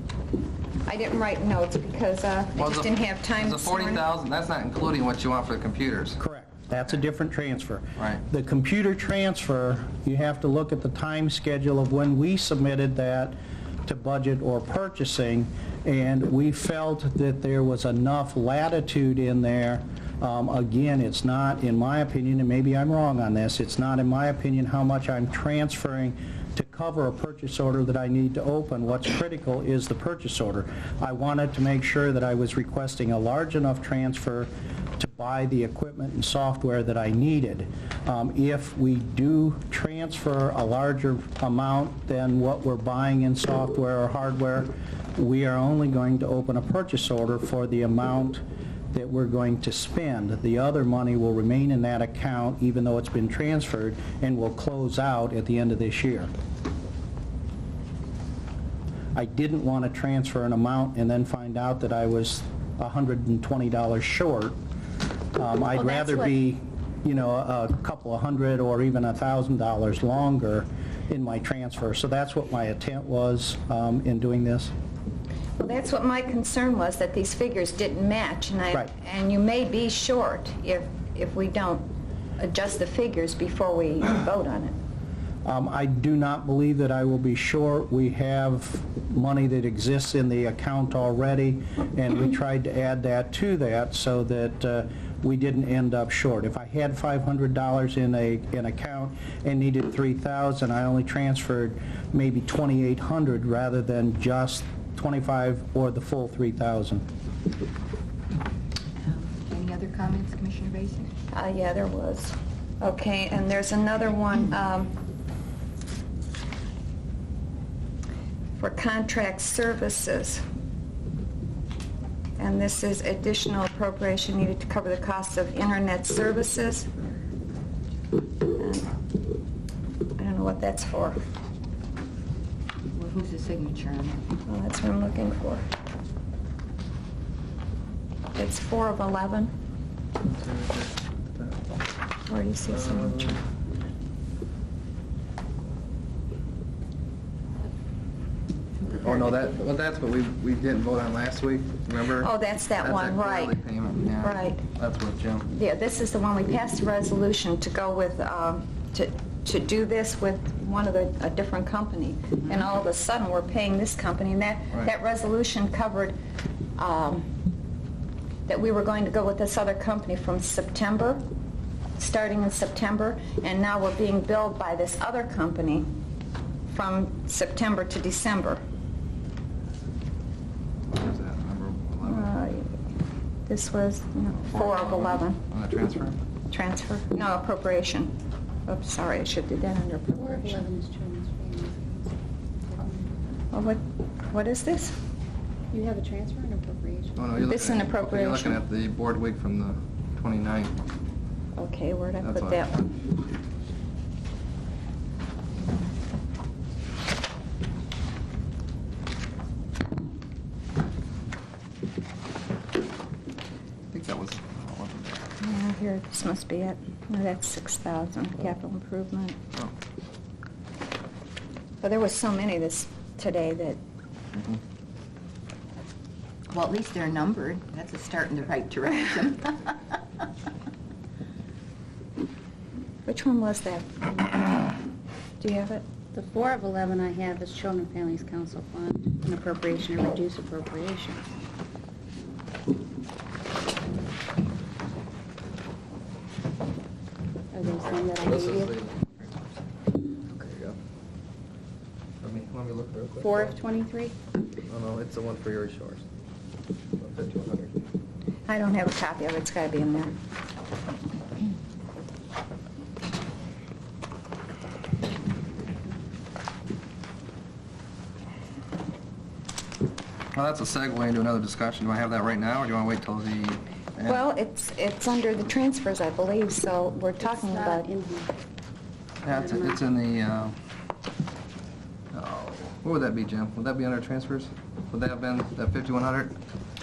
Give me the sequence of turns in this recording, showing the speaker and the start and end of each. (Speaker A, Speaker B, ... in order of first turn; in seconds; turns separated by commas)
Speaker A: 0.8-4.0, Speaker B: 2.5-6.2, Speaker C: 6.2-56.3, Speaker C: 59.1-64.5, Speaker C: 65.3-74.7, Speaker D: 65.8-66.3, Speaker A: 75.6-84.7, Speaker C: 85.4-107.0, Speaker E: 109.0-111.1, Speaker A: 111.3-114.9, Speaker A: 118.6-120.4, Speaker A: 122.4-126.9, Speaker A: 128.6-128.9, Speaker A: 130.2-131.2, Speaker E: 132.9-134.2, Speaker A: 134.4-135.6, Speaker A: 138.3-139.5, Speaker B: 140.2-141.8, Speaker A: 142.3-143.4, Speaker B: 142.7-143.4, Speaker B: 148.9-155.5, Speaker A: 152.1-153.6, Speaker A: 154.2-154.7, Speaker A: 155.5-166.2, Speaker A: 166.8-167.3, Speaker A: 168.5-171.2, Speaker A: 172.0-175.9, Speaker A: 176.7-178.6, Speaker B: 180.9-182.3, Speaker A: 182.0-182.8, Speaker A: 183.5-185.4, Speaker B: 184.3-186.2, Speaker A: 186.5-188.1, Speaker A: 188.7-190.7, Speaker D: 190.1-193.2, Speaker A: 193.5-194.9, Speaker D: 195.7-197.3, Speaker B: 197.2-200.8, Speaker A: 197.4-198.6, Speaker A: 201.6-202.9, Speaker B: 202.2-202.9, Speaker B: 213.9-215.3, Speaker A: 215.4-219.4, Speaker A: 221.8-223.8, Speaker B: 224.3-224.6, Speaker E: 226.5-229.8, Speaker A: 233.1-234.8, Speaker A: 235.4-235.8, Speaker D: 236.1-241.2, Speaker D: 247.5-248.8, Speaker B: 247.8-250.8, Speaker B: 252.2-253.6, Speaker D: 253.2-254.2, Speaker B: 254.7-256.0, Speaker B: 257.0-257.8, Speaker A: 258.5-260.1, Speaker B: 270.3-274.2, Speaker A: 274.0-277.9, Speaker D: 277.2-278.3, Speaker B: 279.2-280.6, Speaker D: 279.2-279.8, Speaker B: 282.1-286.4